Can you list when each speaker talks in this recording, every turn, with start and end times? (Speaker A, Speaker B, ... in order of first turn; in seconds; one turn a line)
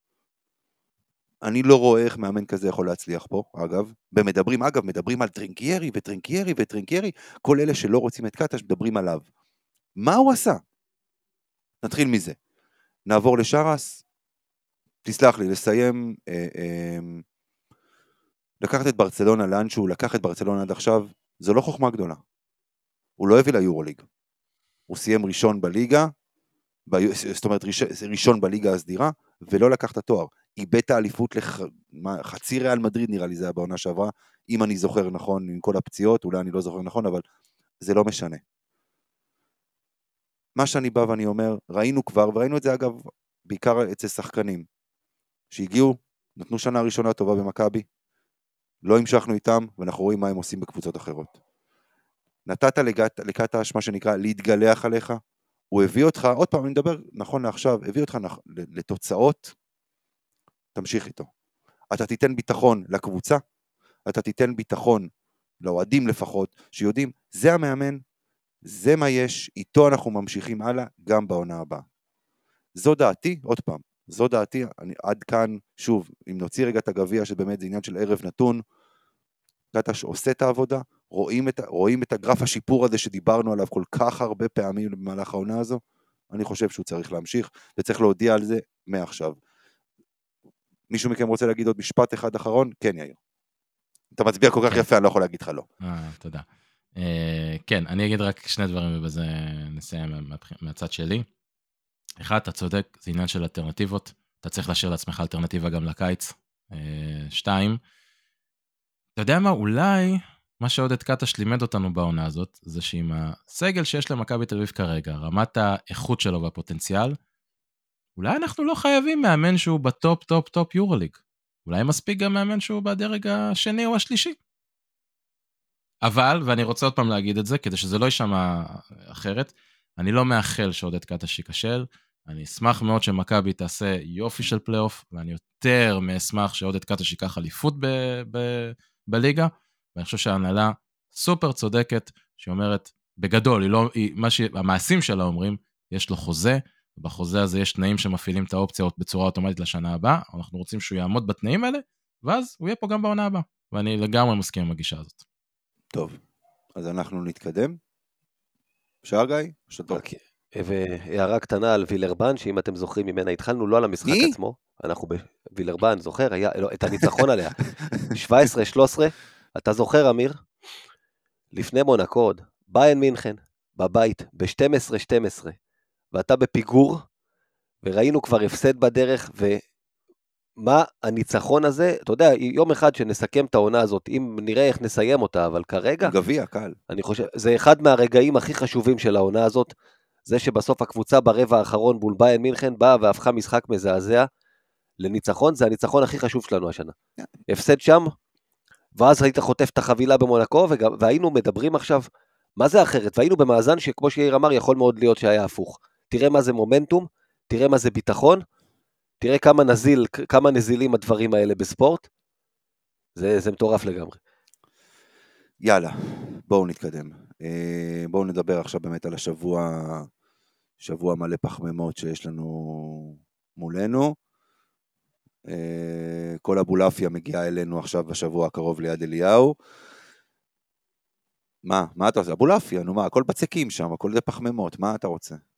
Speaker A: 1.4-9.2
Speaker A: 10.0-10.6
Speaker A: 11.8-12.4
Speaker A: 13.1-14.0
Speaker A: 15.1-17.2
Speaker A: 18.6-22.2
Speaker A: 23.2-24.1
Speaker A: 24.9-26.1
Speaker A: 26.9-37.2
Speaker A: 37.8-38.4
Speaker A: 40.6-44.6
Speaker A: 45.5-47.9
Speaker A: 48.9-51.4
Speaker A: 52.5-55.2
Speaker A: 55.7-59.5
Speaker A: 60.8-61.3
Speaker A: 61.9-63.4
Speaker A: 64.1-65.1
Speaker A: 65.6-68.0
Speaker A: 68.6-71.8
Speaker A: 72.8-78.6
Speaker A: 79.7-89.4
Speaker A: 90.9-93.2
Speaker A: 94.2-95.7
Speaker B: 95.8-101.3
Speaker B: 102.2-107.8
Speaker B: 109.2-117.1
Speaker B: 118.2-124.4
Speaker B: 126.0-155.2
Speaker A: 155.9-156.2
Speaker A: 156.8-157.8
Speaker A: 159.0-160.0
Speaker C: 159.9-167.6
Speaker A: 164.1-164.3
Speaker C: 168.1-170.4
Speaker C: 171.5-175.6
Speaker C: 176.1-177.0
Speaker C: 177.8-179.6
Speaker C: 180.6-186.1
Speaker A: 186.0-186.8
Speaker C: 186.9-189.7
Speaker C: 190.3-194.3
Speaker C: 195.0-196.9
Speaker C: 197.5-198.1
Speaker C: 198.9-202.1
Speaker C: 202.6-208.4
Speaker C: 209.2-212.1
Speaker C: 213.2-214.2
Speaker A: 215.6-220.1
Speaker A: 220.8-224.2
Speaker A: 225.4-229.6
Speaker A: 231.7-235.4